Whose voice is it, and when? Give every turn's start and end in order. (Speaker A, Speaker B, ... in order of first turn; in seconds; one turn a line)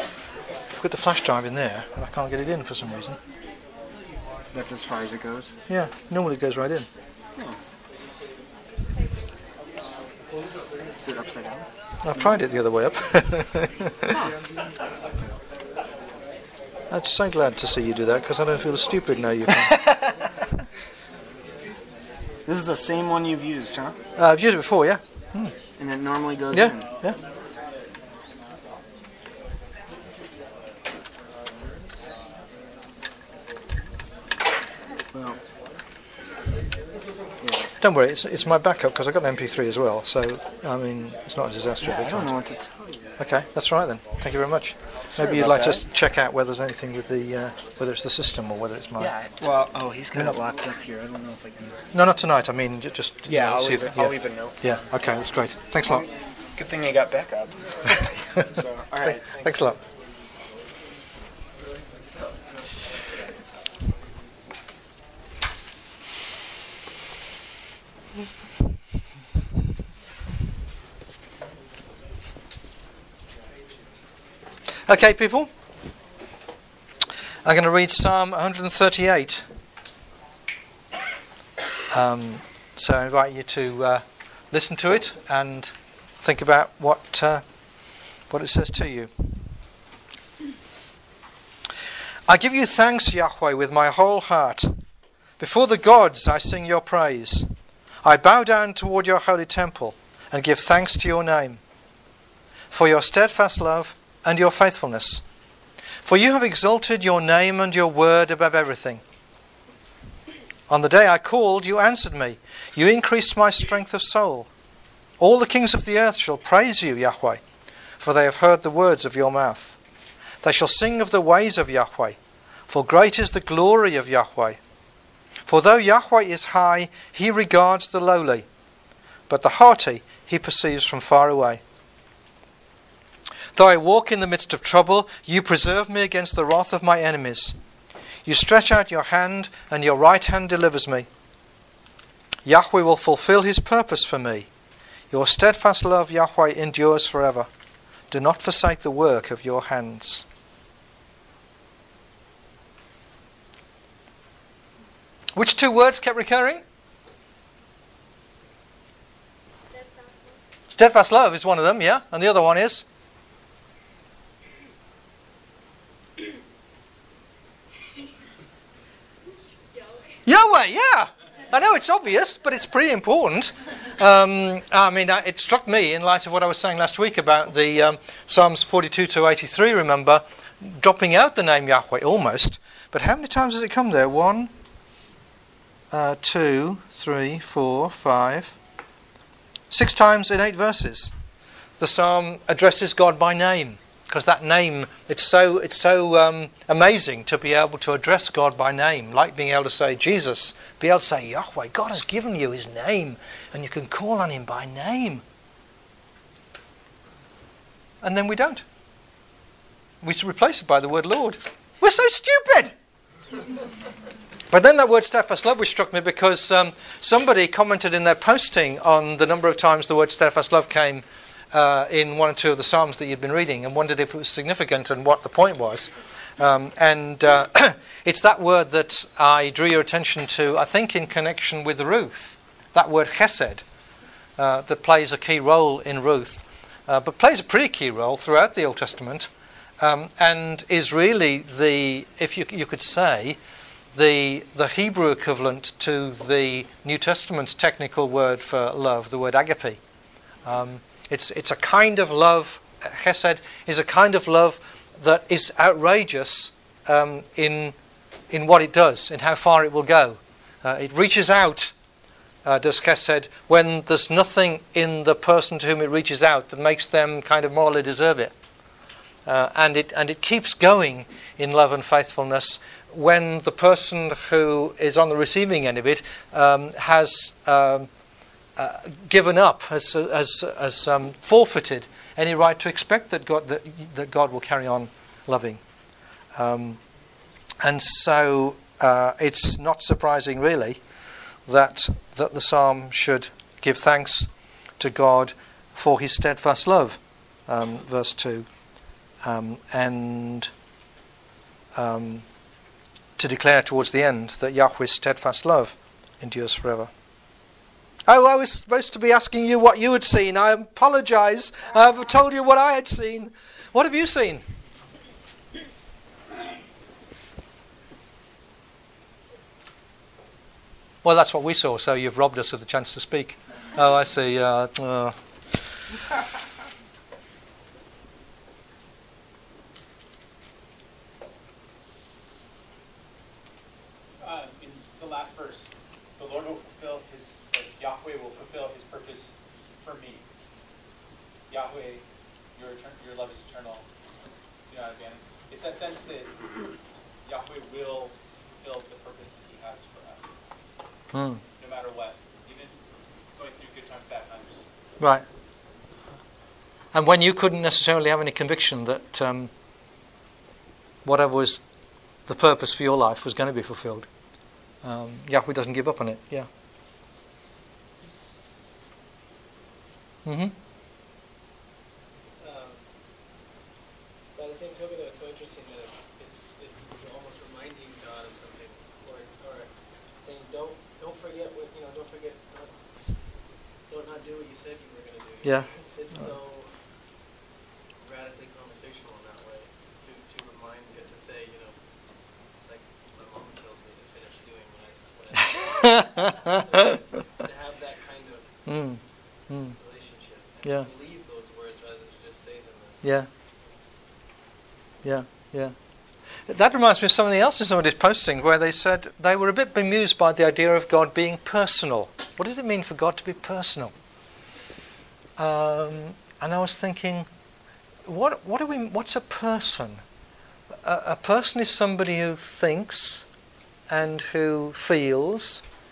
Speaker A: 0.8-3.2
Speaker B: 4.5-5.5
Speaker A: 5.7-6.9
Speaker B: 11.0-11.7
Speaker A: 12.0-14.1
Speaker B: 14.1-14.4
Speaker A: 16.9-19.8
Speaker B: 22.5-24.0
Speaker A: 24.2-25.5
Speaker B: 25.8-26.9
Speaker A: 26.5-27.2
Speaker B: 35.1-35.4
Speaker B: 37.4-37.7
Speaker A: 37.8-42.3
Speaker B: 41.8-43.0
Speaker A: 43.2-49.1
Speaker B: 45.1-45.8
Speaker B: 49.0-51.8
Speaker A: 50.1-50.4
Speaker A: 51.9-56.0
Speaker B: 53.3-54.7
Speaker B: 55.8-59.6
Speaker A: 59.0-59.8
Speaker A: 74.9-75.5
Speaker A: 77.4-79.5
Speaker A: 81.9-87.4
Speaker A: 88.3-89.1
Speaker A: 92.3-94.7
Speaker A: 95.4-97.5
Speaker A: 98.0-101.6
Speaker A: 102.7-105.2
Speaker A: 106.0-109.0
Speaker A: 110.7-114.5
Speaker A: 115.2-117.4
Speaker A: 118.0-119.8
Speaker A: 120.4-122.2
Speaker A: 122.7-124.6
Speaker A: 125.5-128.5
Speaker A: 129.3-131.6
Speaker A: 133.6-137.6
Speaker A: 138.3-141.1
Speaker A: 142.4-144.5
Speaker A: 145.1-147.5
Speaker A: 148.1-150.3
Speaker A: 155.3-156.6
Speaker A: 160.7-162.8
Speaker A: 170.3-184.5
Speaker A: 185.9-188.6
Speaker A: 189.7-191.1
Speaker A: 191.8-205.2
Speaker A: 208.0-208.6
Speaker A: 210.0-212.7
Speaker A: 214.5-233.6
Speaker A: 234.4-239.3
Speaker A: 239.8-243.4
Speaker A: 243.9-249.8
Speaker A: 250.4-257.8
Speaker A: 258.3-261.7
Speaker A: 262.4-268.4
Speaker A: 269.3-277.9
Speaker A: 278.6-285.6
Speaker A: 286.4-286.8
Speaker A: 287.6-290.8
Speaker A: 291.5-298.5
Speaker A: 299.2-300.5
Speaker A: 301.8-302.2
Speaker A: 303.2-306.9
Speaker A: 308.1-314.4
Speaker A: 321.0-325.7
Speaker C: 334.2-340.2
Speaker C: 341.5-342.0
Speaker C: 342.6-343.9
Speaker C: 344.7-346.4
Speaker C: 347.2-350.3
Speaker A: 351.1-351.4
Speaker C: 351.6-352.8
Speaker C: 353.3-354.6
Speaker A: 355.0-355.2
Speaker A: 356.9-359.5
Speaker A: 361.1-361.6
Speaker A: 362.3-364.1
Speaker A: 364.8-366.5
Speaker A: 370.2-370.5
Speaker D: 372.4-373.0
Speaker D: 374.3-386.9
Speaker A: 385.4-385.7
Speaker D: 388.0-398.8
Speaker A: 395.5-396.9
Speaker A: 398.7-399.8
Speaker D: 399.6-403.9
Speaker A: 400.6-400.9
Speaker A: 403.0-403.3
Speaker A: 405.0-405.7
Speaker A: 406.5-413.9
Speaker A: 415.4-417.3
Speaker A: 418.1-420.0
Speaker A: 420.8-423.3
Speaker A: 423.9-425.6